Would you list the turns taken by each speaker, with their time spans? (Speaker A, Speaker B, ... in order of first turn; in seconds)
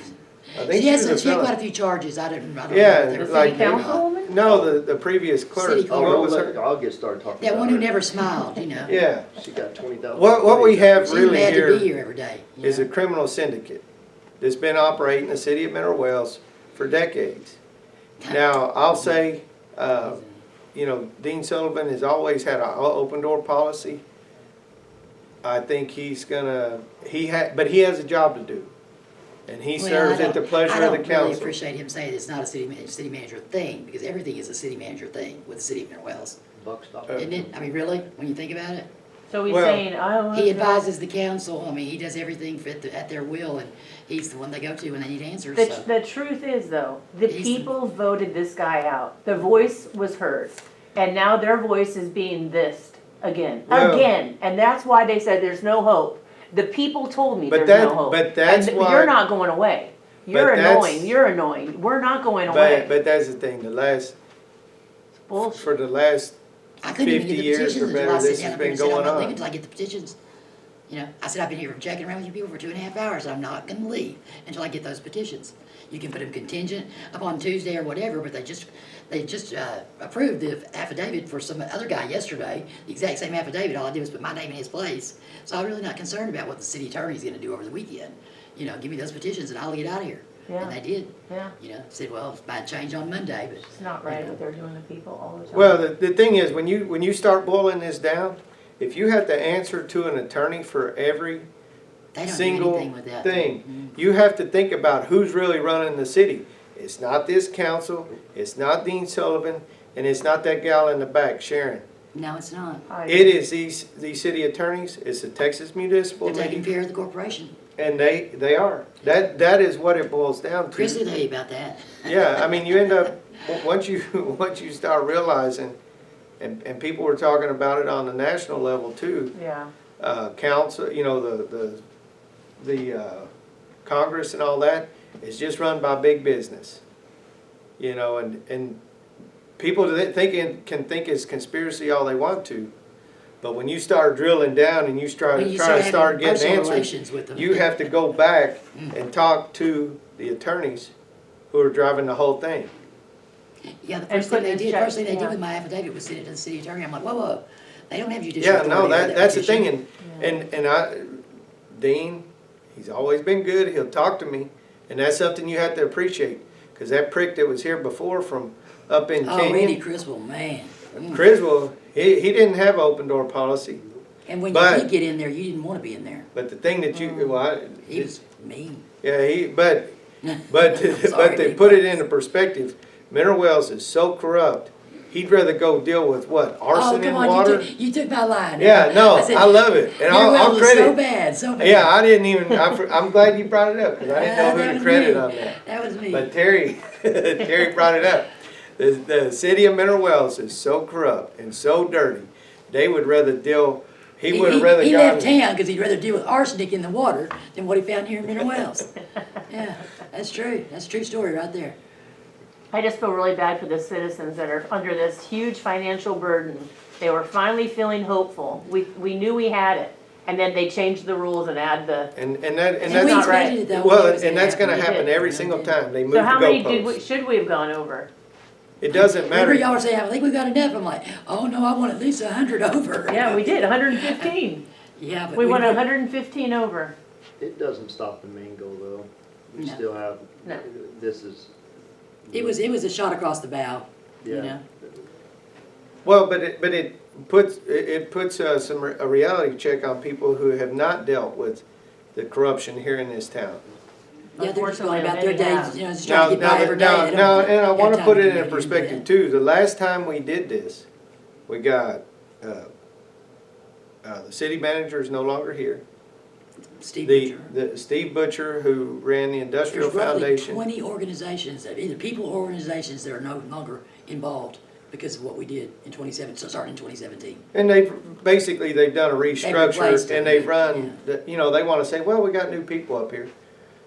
Speaker A: 0.5-1.5, 2.7-6.5, 8.8-9.3, 10.1-11.9, 12.6-13.8, 14.4-17.6, 18.3-20.2, 20.7-24.0, 25.4-28.7, 29.5-31.6, 39.5-39.8, 53.7-54.1, 57.5-59.1, 60.3-61.1, 62.5-64.1, 65.4-66.3, 67.0-69.4, 95.5-101.5, 102.2-111.8, 113.1-116.7, 117.8-121.0, 122.0-125.8, 126.4-129.3, 130.0-131.8, 132.6-133.3, 133.8-136.8, 137.8-138.8, 139.6-142.7, 143.4-150.9, 151.5-152.7, 158.4-169.8, 171.0-173.8, 174.5-174.9, 176.3-178.1, 179.0-179.9, 180.5-187.7, 188.6-191.0, 191.6-195.6, 196.1-205.4, 222.1-227.0, 228.8-229.7, 246.0-251.6, 252.1-253.6, 256.0-260.9, 261.5-262.7, 264.0-265.8, 267.0-270.6, 277.5-283.3
Speaker B: 0.6-4.0, 5.5-6.3, 7.4-8.9, 11.1-12.9, 18.2-19.2, 20.0-20.4, 29.8-36.4, 37.1-38.9, 40.3-45.9, 47.3-47.7, 66.8-70.2, 70.9-94.4, 102.1-104.0, 112.1-112.9, 116.2-117.5, 120.7-123.1, 145.3-147.9, 153.8-159.7, 169.2-171.2, 174.3-176.3, 176.9-178.8, 180.2-182.0, 186.7-191.9, 192.5-193.0, 194.0-196.3, 204.3-208.9, 209.5-211.8, 222.8-225.8, 228.9-234.3, 235.0-235.8, 239.6-239.8, 242.3-244.6, 254.4-259.1, 266.8-267.5, 269.7-277.4, 279.4-281.0
Speaker C: 3.1-4.3, 39.3-40.9, 45.5-62.9, 65.3-65.7, 90.5-90.8, 91.3-91.5, 93.7-95.8, 112.9-113.3, 129.3-129.7, 154.1-155.4, 160.0-160.3, 212.7-222.1, 222.8-223.6, 226.1-228.1, 233.1-234.7, 235.3-236.9, 254.3-255.8
Speaker D: 4.4-4.8, 5.9-8.3, 9.3-11.6, 36.6-37.5, 237.4-241.5, 242.2-242.6, 244.2-245.0